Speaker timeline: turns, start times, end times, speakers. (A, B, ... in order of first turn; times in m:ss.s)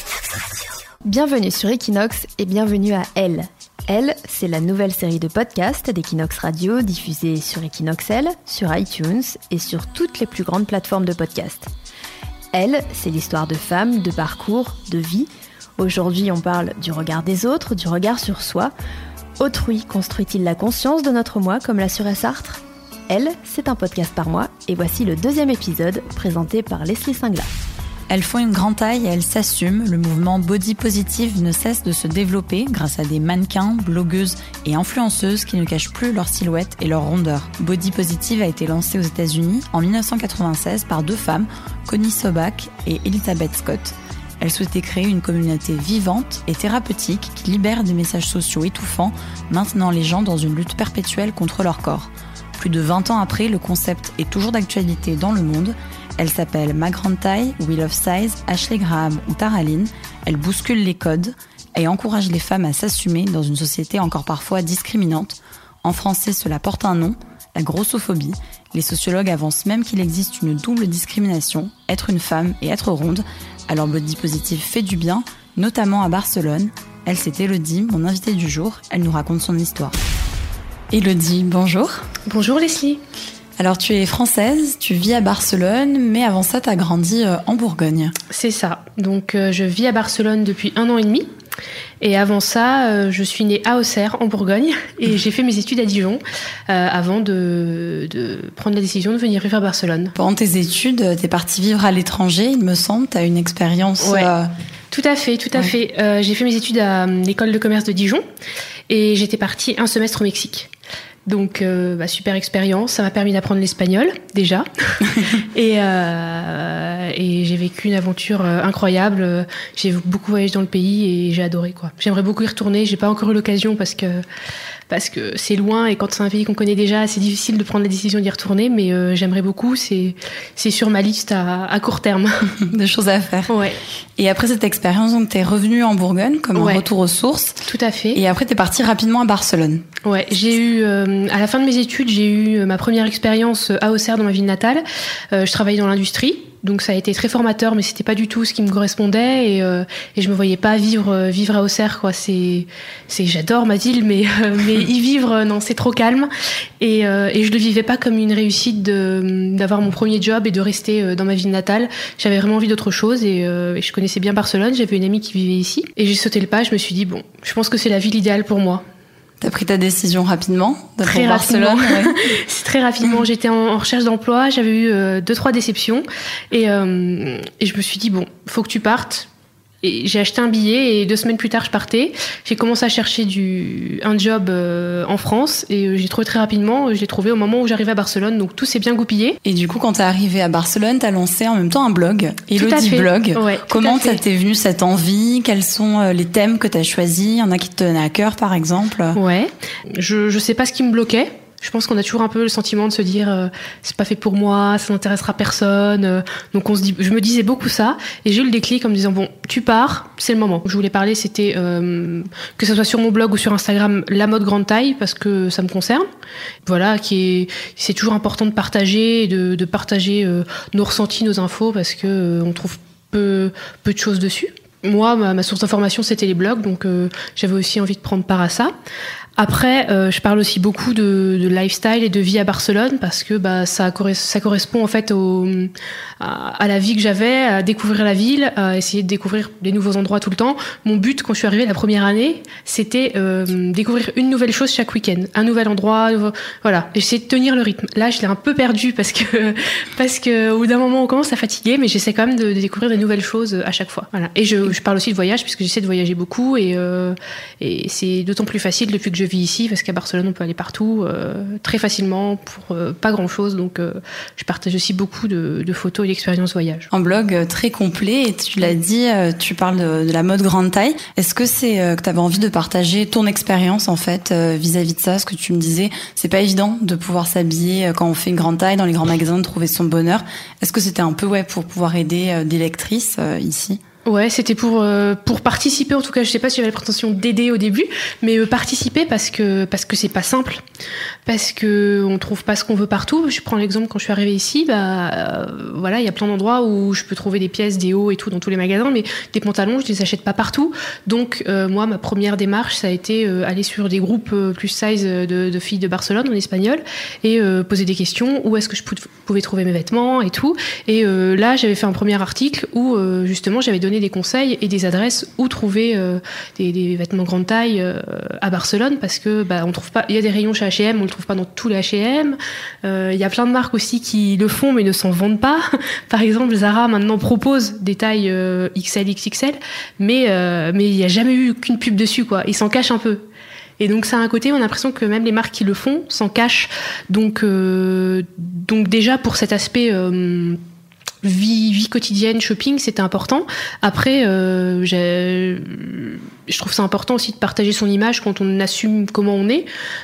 0:01.0-0:11.7 A
0:12.5-0:18.7 A
0:19.4-0:27.5 A
0:28.1-1:19.9 B
1:20.9-1:22.0 B
1:22.3-1:23.0 C
1:23.6-1:28.1 B
1:28.3-1:31.3 C
1:32.0-1:40.1 C
1:40.2-1:44.5 B
1:44.0-1:44.3 C
1:44.9-1:48.2 C
1:48.9-1:50.7 C
1:51.2-1:54.6 C
1:55.4-2:04.2 C
2:04.9-2:12.3 C
2:12.7-2:13.5 B
2:13.5-2:13.8 C
2:14.2-2:17.6 B
2:16.5-2:16.8 C
2:17.6-2:18.2 C
2:18.1-2:19.8 B
2:20.0-2:36.3 C
2:36.8-2:48.8 C
2:49.4-2:52.2 B
2:51.0-2:59.3 C
2:59.8-3:09.4 C
3:09.4-3:19.2 B
3:12.5-3:14.2 C
3:19.1-3:36.0 C
3:36.6-3:48.7 C
3:49.4-4:26.9 C
4:26.9-4:43.8 B
4:44.0-4:50.6 C
4:51.3-5:33.2 C
5:33.8-5:40.6 C
5:41.2-5:49.7 C